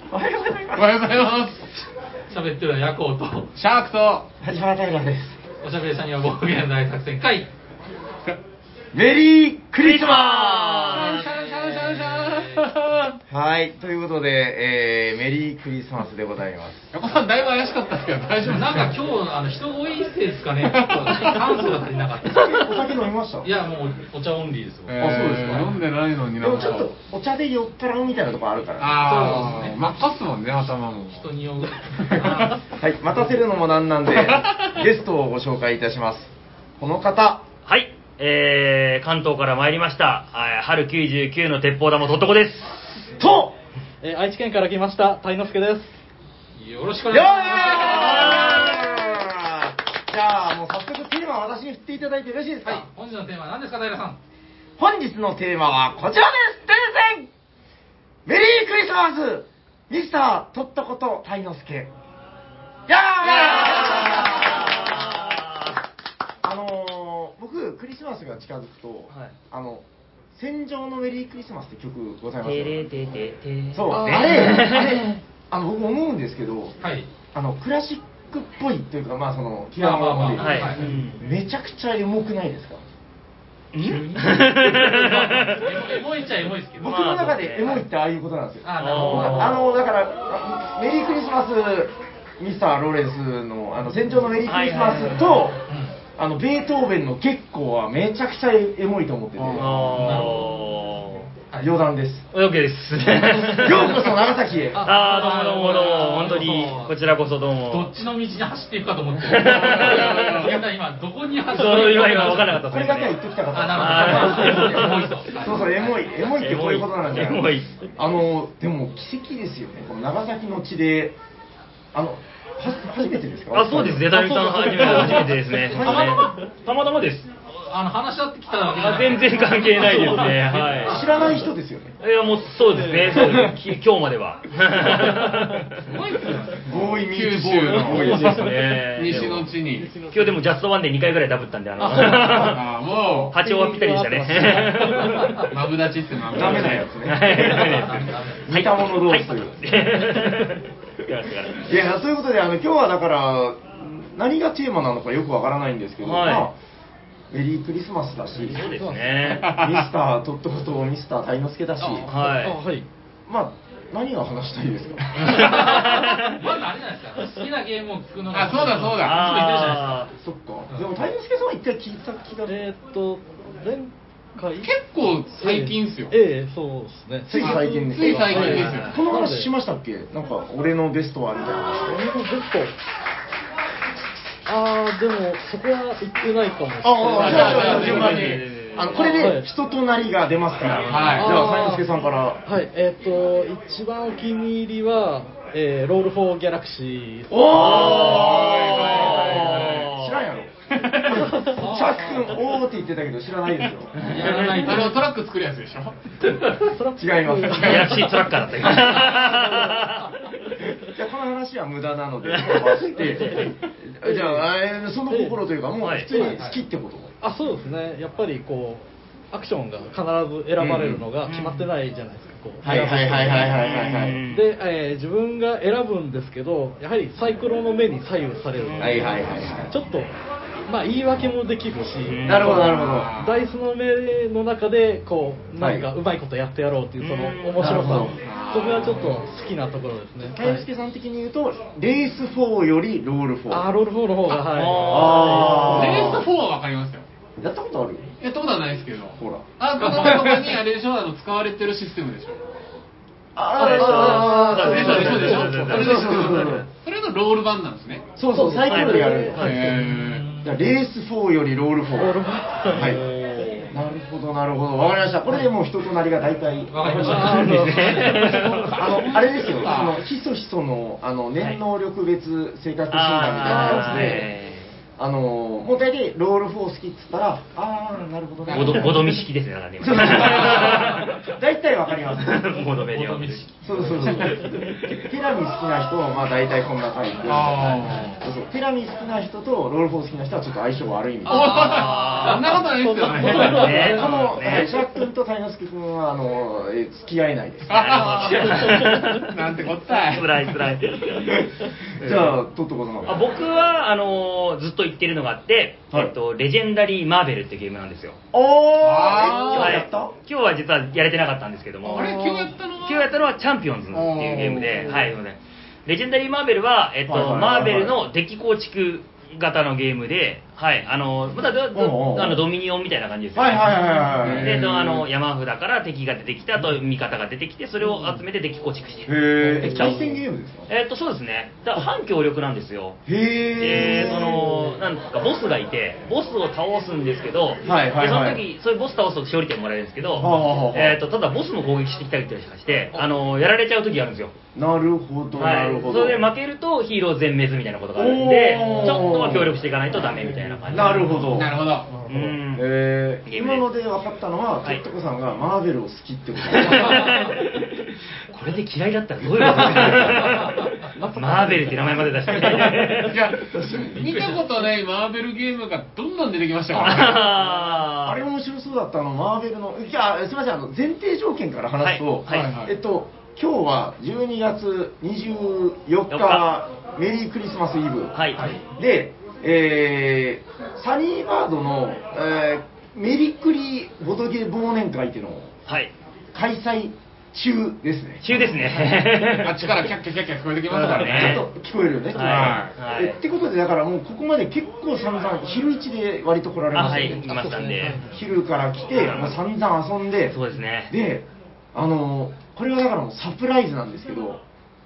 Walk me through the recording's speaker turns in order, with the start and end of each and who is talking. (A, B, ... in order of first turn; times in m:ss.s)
0:00.1-0:01.1 A
0:00.7-0:01.7 B
0:02.3-0:03.5 C
0:03.5-0:04.3 B
0:04.4-0:05.4 A
0:05.6-0:07.5 C
0:08.9-0:11.1 A
0:09.8-0:11.3 D
0:10.9-0:13.2 B
0:11.2-0:12.7 C
0:13.3-0:16.9 A
0:16.9-0:19.0 B
0:18.4-0:22.8 C
0:20.6-0:21.4 B
0:22.2-0:23.5 A
0:23.4-0:25.6 C
0:24.9-0:26.9 B
0:25.0-0:25.8 A
0:26.4-0:29.4 A
0:28.8-0:32.6 B
0:29.0-0:29.8 C
0:31.1-0:32.6 C
0:32.7-0:37.4 A
0:34.1-0:34.7 B
0:37.6-0:42.9 D
0:43.2-0:43.6 A
0:44.0-0:45.9 E
0:46.5-0:48.8 C
0:47.1-0:52.8 A
0:48.0-0:48.6 D
0:52.6-0:54.2 C
0:54.8-0:57.3 A
0:58.2-1:01.9 A
1:02.9-1:05.4 A
1:03.2-1:05.8 D
1:06.4-1:16.8 A
1:12.4-1:15.2 D
1:13.9-1:14.7 E
1:16.8-1:17.1 C
1:17.3-1:22.8 A
1:19.8-1:20.8 C
1:20.3-1:21.2 D
1:23.7-1:25.7 D
1:24.0-1:24.2 C
1:24.8-1:27.0 C
1:26.8-1:35.6 A
1:26.8-1:27.8 D
1:28.6-1:29.6 C
1:28.8-1:29.7 D
1:34.4-1:35.5 D
1:35.7-1:36.0 C
1:36.2-1:40.0 A
1:39.4-1:40.3 B
1:39.5-1:41.3 D
1:39.9-1:40.7 C
1:41.5-1:41.8 C
1:41.6-1:42.3 A
1:42.3-1:44.0 D
1:43.5-1:44.1 C
1:43.6-1:44.9 A
1:44.7-1:47.0 C
1:44.8-1:47.9 D
1:47.6-1:52.6 C
1:49.2-1:50.6 D
1:49.4-1:50.6 B
1:51.5-1:53.2 D
1:52.6-2:01.2 A
1:53.5-1:56.0 C
1:53.7-1:55.1 D
1:56.2-1:57.7 D
2:01.9-2:04.2 A
2:03.5-2:07.3 D
2:04.1-2:06.3 E
2:04.8-2:06.3 A
2:07.7-2:11.4 C
2:08.8-2:11.2 D
2:09.8-2:10.5 E
2:10.8-2:12.0 A
2:12.0-2:15.8 D
2:12.7-2:13.6 E
2:14.8-2:15.7 E
2:15.8-2:16.8 C
2:16.6-2:18.5 A
2:17.0-2:18.2 B
2:17.7-2:19.5 D
2:17.8-2:20.4 E
2:18.8-2:20.0 B
2:20.1-2:22.7 D
2:21.8-2:22.3 C
2:22.0-2:23.4 B
2:22.9-2:25.5 E
2:23.3-2:25.4 D
2:25.4-2:26.9 B
2:26.3-2:27.9 A
2:26.4-2:31.7 D
2:27.3-2:28.5 C
2:28.5-2:29.7 A
2:31.6-2:36.6 A
2:36.0-2:36.5 D
2:37.3-2:38.8 A
2:38.4-2:39.6 D
2:38.4-2:39.4 E
2:39.4-2:39.8 B
2:39.5-2:42.1 A
2:41.8-2:42.9 E
2:42.0-2:42.6 D
2:43.3-2:45.6 A
2:45.2-2:50.0 C
2:45.2-2:46.4 D
2:48.3-2:49.2 B
2:49.0-2:50.1 D
2:50.2-2:52.6 A
2:50.7-2:50.9 C
2:52.5-2:54.7 E
2:54.6-2:56.2 B
2:55.3-2:59.5 E
2:57.3-3:02.0 A
2:57.4-2:59.0 B
2:58.4-2:59.0 D
3:01.8-3:02.7 E
3:04.4-3:08.3 E
3:06.8-3:12.4 A
3:07.1-3:08.4 B
3:07.2-3:09.4 D
3:09.1-3:09.4 E
3:10.6-3:11.5 D
3:10.8-3:11.4 B
3:11.2-3:11.9 E
3:12.4-3:18.3 E
3:17.3-3:24.0 A
3:17.5-3:20.2 D
3:17.7-3:19.9 B
3:19.1-3:19.4 E
3:20.7-3:21.3 B
3:21.1-3:22.2 E
3:21.5-3:22.2 C
3:23.9-3:24.9 D
3:24.0-3:25.1 C
3:24.5-3:26.6 B
3:26.6-3:29.9 E
3:27.0-3:28.0 A
3:27.5-3:28.1 B
3:27.5-3:30.2 D
3:30.6-3:37.1 A
3:32.2-3:33.5 D
3:33.2-3:34.5 E
3:35.1-3:35.4 E
3:35.8-3:36.1 D
3:36.0-3:36.6 E
3:36.2-3:36.6 C
3:37.2-3:50.1 E
3:40.6-3:41.0 A
3:41.2-3:41.7 D
3:42.6-3:44.2 A
3:43.4-3:44.5 D
3:48.5-3:49.2 D
3:48.8-3:49.7 A
3:50.7-4:00.6 E
3:52.0-3:52.7 D
3:52.2-3:53.1 A
3:52.4-3:53.4 B
3:55.6-3:55.9 A
3:57.0-3:58.1 D
3:57.6-3:58.2 A
3:58.1-3:59.3 B
4:00.2-4:03.7 A
4:03.5-4:06.0 E
4:04.2-4:06.2 D
4:04.8-4:06.3 A
4:05.7-4:07.1 B
4:07.4-4:08.1 A
4:08.2-4:12.5 B
4:09.2-4:09.5 A
4:13.4-4:16.6 A
4:13.4-4:16.6 D
4:13.6-4:16.1 E
4:14.6-4:18.1 B
4:18.2-4:19.6 A
4:18.3-4:19.9 E
4:18.6-4:19.8 D
4:19.4-4:20.3 B
4:19.8-4:20.6 C
4:20.4-4:23.0 A
4:22.0-4:23.7 E
4:22.7-4:23.6 D
4:23.7-4:28.1 A
4:26.7-4:28.4 C
4:27.0-4:29.0 E
4:27.0-4:28.7 D
4:28.2-4:30.0 B
4:28.7-4:34.3 A
4:32.9-4:34.7 D
4:33.4-4:34.3 E
4:35.0-4:39.2 A
4:38.5-4:39.0 B
4:38.5-4:41.2 D
4:39.8-4:42.6 A
4:40.0-4:40.9 B
4:42.2-4:45.0 D
4:42.8-4:44.4 C
4:43.6-4:51.9 A
4:44.2-4:44.5 E
4:47.2-4:48.2 B
4:51.2-4:54.1 B
4:51.2-4:54.7 D
4:52.2-4:54.7 E
4:53.8-4:58.0 A
4:57.7-4:59.4 D
4:57.7-5:00.5 B
4:58.6-4:59.1 E
4:59.9-5:02.4 D
5:01.1-5:03.3 A
5:03.0-5:08.2 D
5:08.3-5:10.2 A
5:08.8-5:09.8 B
5:09.5-5:30.1 D
5:11.8-5:13.1 B
5:13.9-5:15.1 B
5:17.1-5:18.0 A
5:21.7-5:22.5 A
5:23.3-5:25.1 A
5:27.8-5:28.2 E
5:29.0-5:30.7 A
5:29.4-5:30.2 E
5:30.7-5:33.0 D
5:33.0-5:34.5 A
5:33.6-5:44.3 D
5:33.8-5:34.8 E
5:37.6-5:38.4 A
5:40.2-5:41.0 A
5:44.5-5:46.3 A
5:45.4-5:51.4 D
5:47.9-5:49.6 A
5:49.9-5:52.4 E
5:50.7-5:51.6 A
5:51.3-5:51.9 B
5:52.0-5:52.7 D
5:52.5-5:57.1 A
5:53.2-5:53.7 D
5:56.4-6:03.3 D
5:59.2-6:00.5 A
5:59.7-6:00.3 E
6:00.9-6:03.1 E
6:02.6-6:07.3 B
6:03.4-6:04.2 A
6:04.0-6:04.6 C
6:06.7-6:08.2 D
6:07.2-6:07.8 E
6:08.0-6:25.6 A
6:11.8-6:12.5 D
6:12.3-6:12.8 B
6:16.1-6:16.4 D
6:18.1-6:18.5 D
6:18.4-6:18.6 C
6:25.7-6:25.9 D
6:26.3-6:28.8 A
6:28.2-6:29.9 D
6:29.3-6:31.4 B
6:30.7-6:31.4 D
6:31.0-6:37.5 A
6:32.1-6:33.2 D
6:32.2-6:32.8 B
6:36.7-6:38.1 D
6:36.8-6:38.2 E
6:38.0-6:40.4 A
6:38.9-6:39.4 D
6:40.3-6:40.9 D
6:40.9-6:44.4 A